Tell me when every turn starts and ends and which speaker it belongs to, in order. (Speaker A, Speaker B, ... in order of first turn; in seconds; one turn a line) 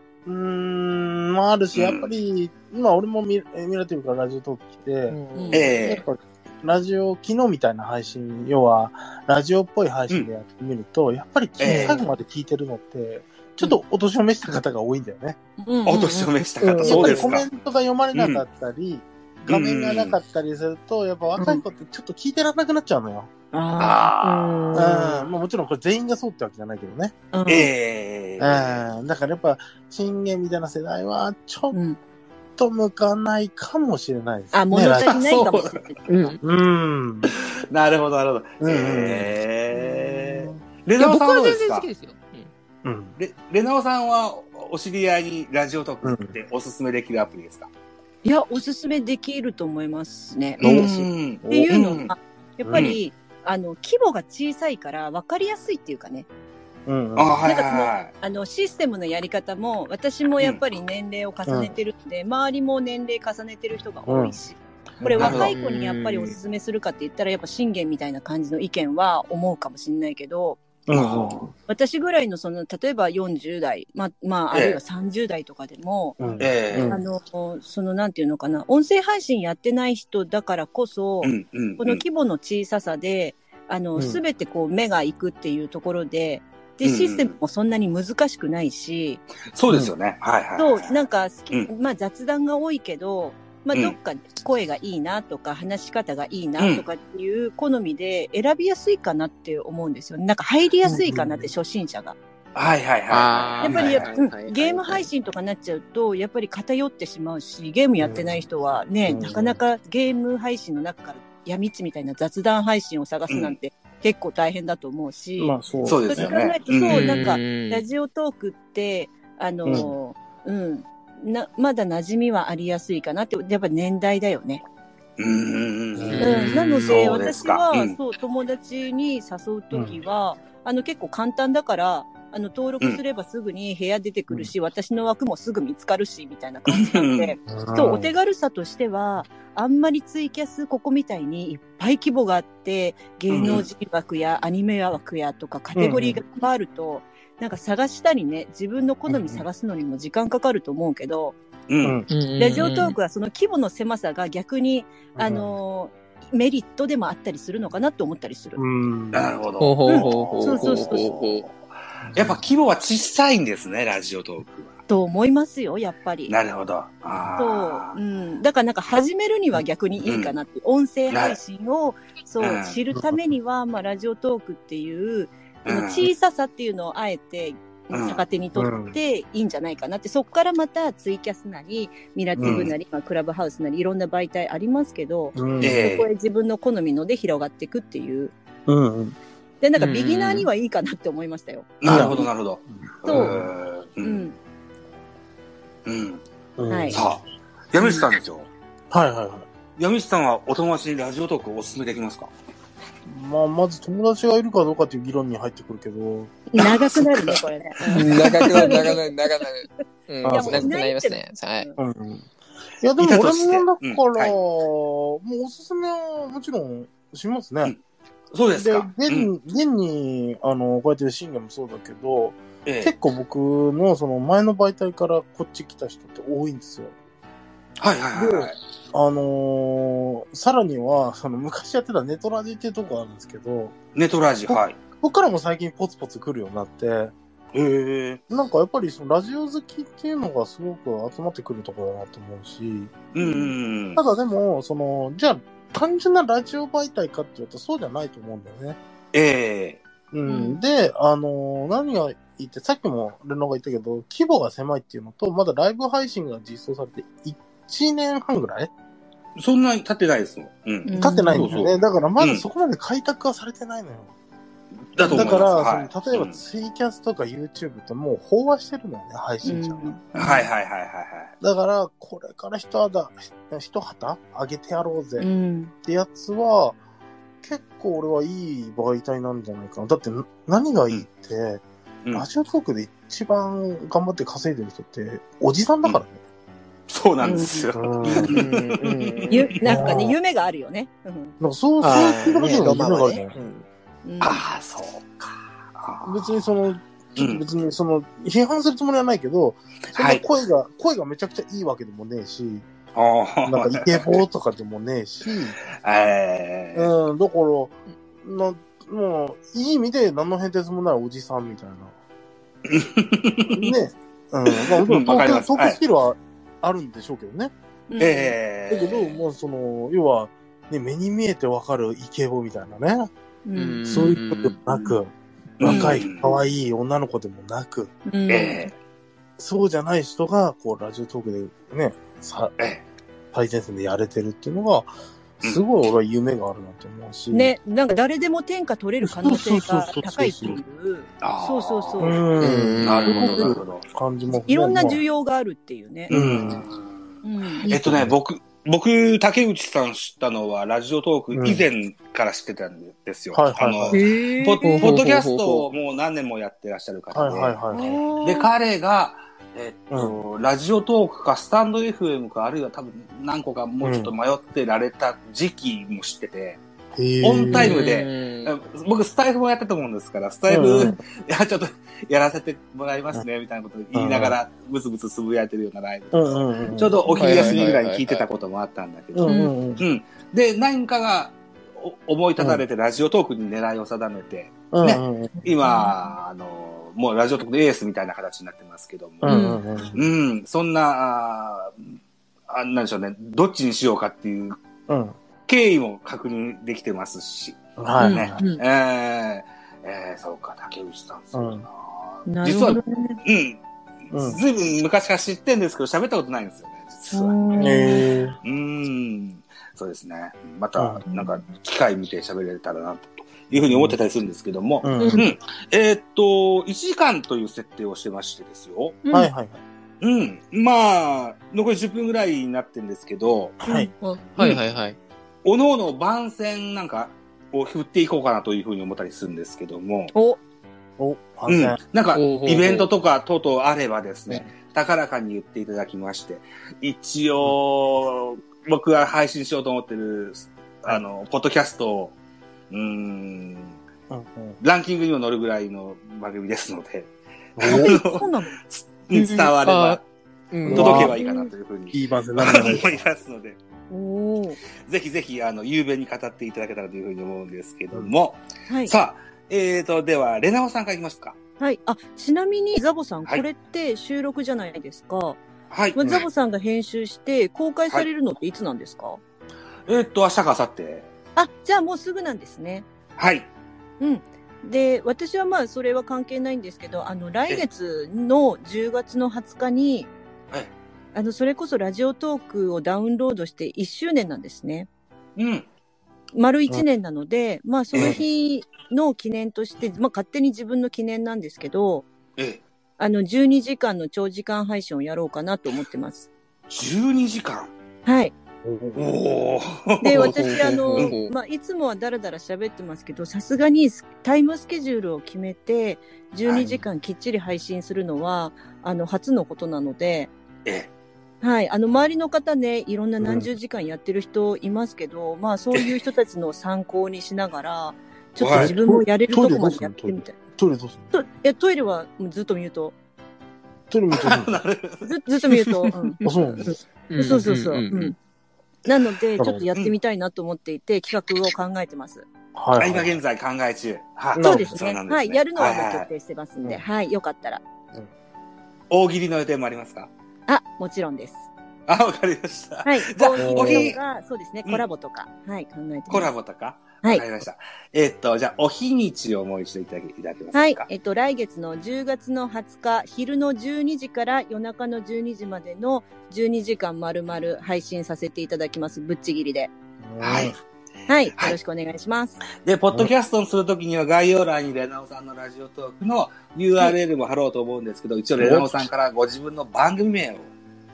Speaker A: 0.2-5.2
Speaker B: 1.7-2.1
Speaker C: 5.1-5.7
Speaker D: 5.3-5.7
Speaker B: 5.5-6.0
Speaker A: 5.7-15.4
Speaker B: 11.6-12.0
Speaker D: 15.6-17.4
Speaker B: 15.8-17.5
Speaker A: 16.6-23.3
Speaker B: 18.1-18.4
Speaker B: 19.4-20.2
Speaker D: 23.5-25.3
Speaker B: 23.8-24.8
Speaker A: 24.7-27.1
Speaker D: 27.3-27.7
Speaker B: 27.4-28.8
Speaker A: 28.4-31.7
Speaker D: 31.7-32.0
Speaker A: 32.6-35.1
Speaker D: 34.5-36.0
Speaker B: 35.0-36.3
Speaker C: 36.1-36.4
Speaker A: 36.4-37.3
Speaker B: 37.3-41.9
Speaker A: 38.6-39.4
Speaker C: 41.0-42.5
Speaker A: 42.8-43.2
Speaker B: 43.2-47.7
Speaker A: 46.0-46.3
Speaker D: 48.2-56.3
Speaker B: 50.6-52.1
Speaker A: 50.6-50.9
Speaker A: 52.6-52.9
Speaker B: 52.7-53.0
Speaker A: 56.9-57.4
Speaker B: 57.1-58.1
Speaker D: 57.4-70.6
Speaker A: 61.5-61.7
Speaker A: 64.0-64.3
Speaker A: 65.0-65.4
Speaker B: 65.2-65.5
Speaker C: 65.5-66.4
Speaker A: 70.9-71.5
Speaker B: 70.9-71.5
Speaker D: 71.7-89.2
Speaker B: 74.5-74.8
Speaker A: 76.2-77.0
Speaker B: 76.4-77.0
Speaker B: 81.2-82.0
Speaker B: 86.8-87.3
Speaker B: 89.5-91.0
Speaker D: 90.6-102.2
Speaker B: 96.6-96.8
Speaker A: 100.8-101.5
Speaker B: 102.5-104.1
Speaker C: 103.1-105.1
Speaker D: 103.6-115.5
Speaker A: 108.0-108.3
Speaker A: 109.0-109.6
Speaker B: 113.3-113.6
Speaker A: 115.4-116.2
Speaker B: 115.8-117.2
Speaker D: 116.1-124.6
Speaker C: 116.9-117.8
Speaker A: 119.6-119.9
Speaker B: 125.2-128.0
Speaker A: 125.9-126.3
Speaker C: 126.1-127.2
Speaker D: 126.2-151.4
Speaker A: 129.7-130.0
Speaker B: 136.7-137.3
Speaker A: 137.5-138.1
Speaker A: 143.3-143.6
Speaker B: 143.4-143.7
Speaker A: 145.7-146.2
Speaker A: 149.1-149.4
Speaker B: 151.7-152.0
Speaker C: 152.1-152.9
Speaker D: 152.4-158.6
Speaker A: 155.2-155.5
Speaker A: 158.6-159.3
Speaker B: 159.1-161.5
Speaker C: 159.6-161.4
Speaker D: 159.8-161.1
Speaker A: 162.0-162.4
Speaker B: 162.1-164.8
Speaker D: 164.9-166.3
Speaker B: 166.3-167.9
Speaker D: 167.4-188.3
Speaker B: 170.1-170.3
Speaker B: 171.1-171.4
Speaker B: 172.4-172.8
Speaker A: 172.9-173.2
Speaker B: 175.6-176.1
Speaker B: 177.9-178.2
Speaker A: 178.6-178.9
Speaker A: 182.4-182.7
Speaker B: 182.4-182.7
Speaker A: 185.3-185.8
Speaker B: 185.6-186.1
Speaker A: 188.7-189.2
Speaker D: 189.6-192.2
Speaker C: 189.8-190.5
Speaker B: 191.8-194.2
Speaker A: 191.8-193.4
Speaker D: 193.0-193.4
Speaker D: 194.0-194.3
Speaker B: 195.8-196.2
Speaker A: 196.6-197.2
Speaker D: 196.7-197.0
Speaker B: 196.9-198.5
Speaker D: 197.8-198.1
Speaker A: 198.9-199.5
Speaker B: 199.8-202.3
Speaker A: 203.1-206.3
Speaker D: 206.5-209.5
Speaker B: 206.6-207.4
Speaker C: 207.9-211.7
Speaker B: 208.1-208.8
Speaker A: 210.2-210.7
Speaker D: 210.3-211.8
Speaker A: 211.8-212.3
Speaker A: 212.8-217.7
Speaker B: 213.0-214.3
Speaker B: 218.3-219.3
Speaker A: 218.5-226.9
Speaker B: 222.6-222.9
Speaker B: 227.8-228.6
Speaker A: 228.1-233.7
Speaker B: 233.9-234.8
Speaker A: 234.5-237.1
Speaker B: 237.5-238.2
Speaker A: 238.3-242.9
Speaker B: 243.1-244.0
Speaker D: 243.2-243.5
Speaker A: 243.9-248.8
Speaker B: 249.1-249.8
Speaker A: 250.1-258.7
Speaker D: 250.3-250.6
Speaker B: 259.4-262.4
Speaker D: 260.9-261.7
Speaker A: 261.0-264.1
Speaker B: 264.9-266.4
Speaker A: 265.0-270.0
Speaker D: 265.1-265.4
Speaker D: 269.4-270.4
Speaker B: 270.1-271.3
Speaker A: 271.4-275.3
Speaker D: 275.2-275.7
Speaker A: 275.8-276.8
Speaker A: 277.4-281.6
Speaker A: 282.1-286.2
Speaker B: 286.9-289.3
Speaker D: 287.2-287.7
Speaker A: 287.7-288.4
Speaker C: 288.1-289.9
Speaker D: 289.3-291.4
Speaker A: 289.6-290.1
Speaker A: 291.4-293.4
Speaker C: 291.8-293.6
Speaker D: 292.6-293.2
Speaker D: 294.0-294.4
Speaker B: 294.2-296.4
Speaker A: 296.0-302.6
Speaker B: 297.2-297.4
Speaker B: 299.9-300.2
Speaker B: 302.9-304.2
Speaker A: 303.4-305.6
Speaker B: 305.7-306.9
Speaker A: 306.7-311.9
Speaker B: 312.6-313.7
Speaker A: 313.5-317.5
Speaker B: 314.5-315.8
Speaker D: 317.9-318.4
Speaker B: 318.0-319.1
Speaker A: 318.7-323.1
Speaker D: 323.4-323.9
Speaker C: 323.5-324.6
Speaker A: 323.9-327.9
Speaker B: 325.6-326.3
Speaker D: 325.6-326.0
Speaker D: 328.1-328.7
Speaker B: 328.3-328.7
Speaker A: 329.4-332.5
Speaker B: 332.6-332.8
Speaker A: 333.3-337.5
Speaker D: 337.3-342.3
Speaker A: 339.0-340.6
Speaker B: 341.2-343.9
Speaker A: 342.0-345.0
Speaker C: 342.4-343.4
Speaker D: 343.1-343.5
Speaker D: 344.5-346.1
Speaker B: 346.1-357.6
Speaker A: 346.1-346.7
Speaker D: 347.2-347.7
Speaker A: 347.8-348.1
Speaker A: 351.3-351.7
Speaker A: 353.3-354.0
Speaker C: 353.9-355.7
Speaker D: 354.1-355.0
Speaker A: 357.1-358.0
Speaker D: 357.7-358.5
Speaker B: 358.2-366.6
Speaker A: 359.9-360.2
Speaker A: 363.8-364.1
Speaker A: 366.9-367.8
Speaker B: 367.2-391.8
Speaker C: 367.5-368.5
Speaker A: 370.5-371.0
Speaker A: 373.9-374.4
Speaker A: 376.1-377.0
Speaker D: 377.1-377.6
Speaker C: 377.1-378.2
Speaker A: 379.1-379.8
Speaker D: 379.2-379.5
Speaker A: 382.4-382.6
Speaker A: 384.7-385.4
Speaker D: 385.6-385.9
Speaker A: 389.2-390.0
Speaker D: 389.2-389.6
Speaker B: 392.5-394.6
Speaker A: 394.9-395.2
Speaker B: 395.5-407.8
Speaker A: 397.8-398.4
Speaker D: 398.0-398.6
Speaker A: 401.3-401.6
Speaker D: 402.2-403.2
Speaker A: 404.1-404.4
Speaker D: 407.1-408.1
Speaker A: 407.6-408.4
Speaker B: 408.4-419.0
Speaker A: 410.8-411.0
Speaker D: 411.1-411.4
Speaker A: 413.5-414.0
Speaker A: 414.8-415.3
Speaker D: 419.0-419.3
Speaker A: 419.1-419.6
Speaker B: 420.0-423.6
Speaker A: 423.6-423.9
Speaker D: 423.6-423.9
Speaker C: 424.0-425.0
Speaker B: 425.4-430.1
Speaker D: 430.1-430.4
Speaker A: 431.0-431.8
Speaker B: 431.5-442.1
Speaker C: 432.1-432.9
Speaker B: 442.7-443.8
Speaker A: 444.1-444.6
Speaker B: 444.6-450.0
Speaker A: 447.6-447.9
Speaker D: 447.6-448.5
Speaker C: 449.1-450.0
Speaker C: 450.5-451.1
Speaker B: 450.6-453.6
Speaker A: 450.7-451.1
Speaker D: 451.1-451.5
Speaker A: 451.9-453.0
Speaker D: 453.9-454.6
Speaker B: 454.8-461.4
Speaker D: 461.6-465.4
Speaker B: 465.7-466.3
Speaker D: 466.0-469.2
Speaker B: 469.9-471.1
Speaker D: 471.4-472.9
Speaker B: 473.2-473.5
Speaker D: 474.0-480.1
Speaker D: 481.1-484.9
Speaker B: 485.4-485.7
Speaker D: 486.3-492.1
Speaker B: 487.9-488.2
Speaker A: 487.9-488.2
Speaker D: 493.0-496.3
Speaker B: 496.7-497.7
Speaker D: 498.1-498.3
Speaker A: 498.6-499.1
Speaker B: 498.9-501.1
Speaker D: 500.0-510.3
Speaker C: 500.1-501.3
Speaker B: 506.4-506.8
Speaker B: 510.6-510.9
Speaker D: 511.4-520.3
Speaker A: 513.2-513.5
Speaker B: 515.7-516.0
Speaker B: 518.4-518.8
Speaker A: 518.5-521.1
Speaker D: 521.1-522.9
Speaker A: 523.9-524.6
Speaker B: 524.1-525.5
Speaker D: 525.0-528.1
Speaker A: 526.2-526.7
Speaker C: 527.1-528.1
Speaker D: 528.9-532.3
Speaker A: 529.4-529.6
Speaker A: 532.5-533.2
Speaker B: 532.8-536.1
Speaker A: 534.3-534.7
Speaker D: 534.4-537.6
Speaker B: 538.9-540.1
Speaker D: 540.5-541.5
Speaker B: 541.9-544.0
Speaker D: 542.8-546.3
Speaker A: 543.4-544.0
Speaker B: 546.1-550.9
Speaker D: 550.5-559.7
Speaker A: 560.0-560.5
Speaker B: 560.2-560.5
Speaker D: 561.1-562.4
Speaker B: 562.6-570.5
Speaker A: 568.4-568.9